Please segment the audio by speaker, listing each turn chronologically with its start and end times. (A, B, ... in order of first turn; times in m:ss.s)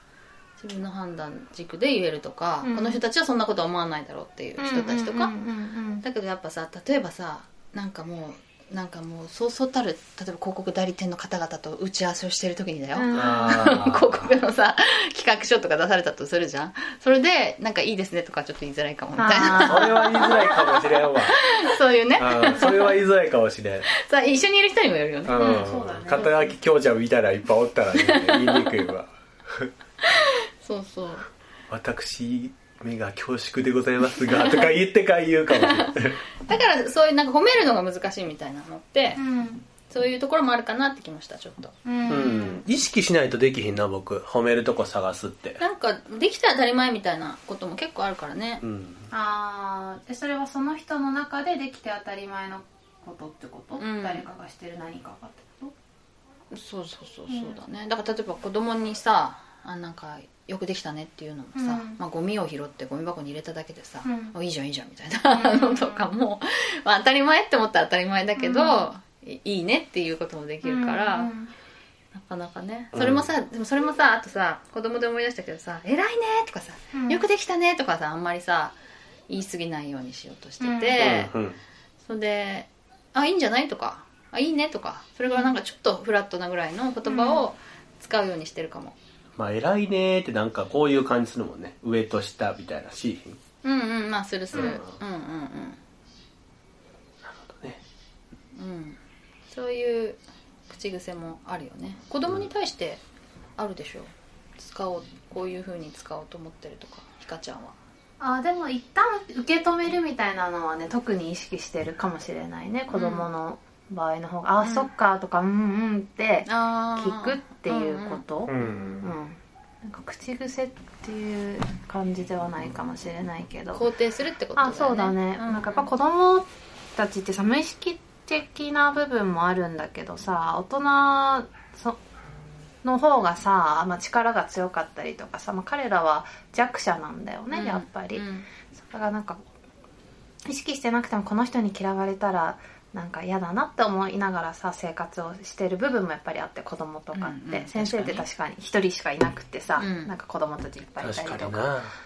0:00.6-0:05.3 A
0:02.6-0:03.0 B
0:04.6-0:06.0 B
0:06.0-0:23.0 A
0:12.9-0:13.6 B
0:13.1-0:14.3 C
0:19.2-0:20.3 B
0:19.7-0:21.4 C
0:22.2-0:23.9 C
0:23.9-0:25.6 A
0:25.2-0:29.7 C
0:25.3-0:26.5 B
0:28.0-0:28.8 A
0:30.1-0:31.3 A
0:31.7-0:36.2 C
0:34.2-0:34.7 A
0:35.5-0:39.2 A
0:39.2-0:39.6 B
0:39.9-0:41.7 A
0:41.8-0:42.6 B
0:42.1-0:45.6 C
0:45.6-0:48.6 A
0:48.6-0:49.1 C
0:49.1-0:55.7 B
0:53.8-0:54.3 A
0:56.5-1:11.3 A
0:57.3-0:57.6 B
1:01.6-1:02.0 B
1:04.0-1:04.3 B
1:05.3-1:06.1 B
1:08.4-1:08.9 B
1:10.6-1:11.5 B
1:12.1-1:18.7 A
1:12.9-1:13.3 C
1:16.9-1:17.2 B
1:19.3-1:21.3 A
1:20.6-1:21.0 B
1:21.0-1:21.6 C
1:22.0-1:29.0 A
1:27.0-1:27.5 B
1:29.4-1:33.4 C
1:33.6-1:35.8 A
1:34.5-1:35.0 C
1:37.2-1:37.8 C
1:38.5-1:43.0 A
1:43.6-1:47.8 A
1:48.2-2:03.8 B
1:52.9-1:53.3 A
1:54.6-1:54.9 A
1:56.4-1:59.0 A
1:58.5-1:59.1 C
2:03.7-2:05.9 A
2:04.6-2:12.0 B
2:12.8-2:19.4 B
2:17.5-2:18.5 A
2:20.4-2:31.7 B
2:27.1-2:28.2 A
2:29.8-2:30.1 A
2:31.0-2:31.9 C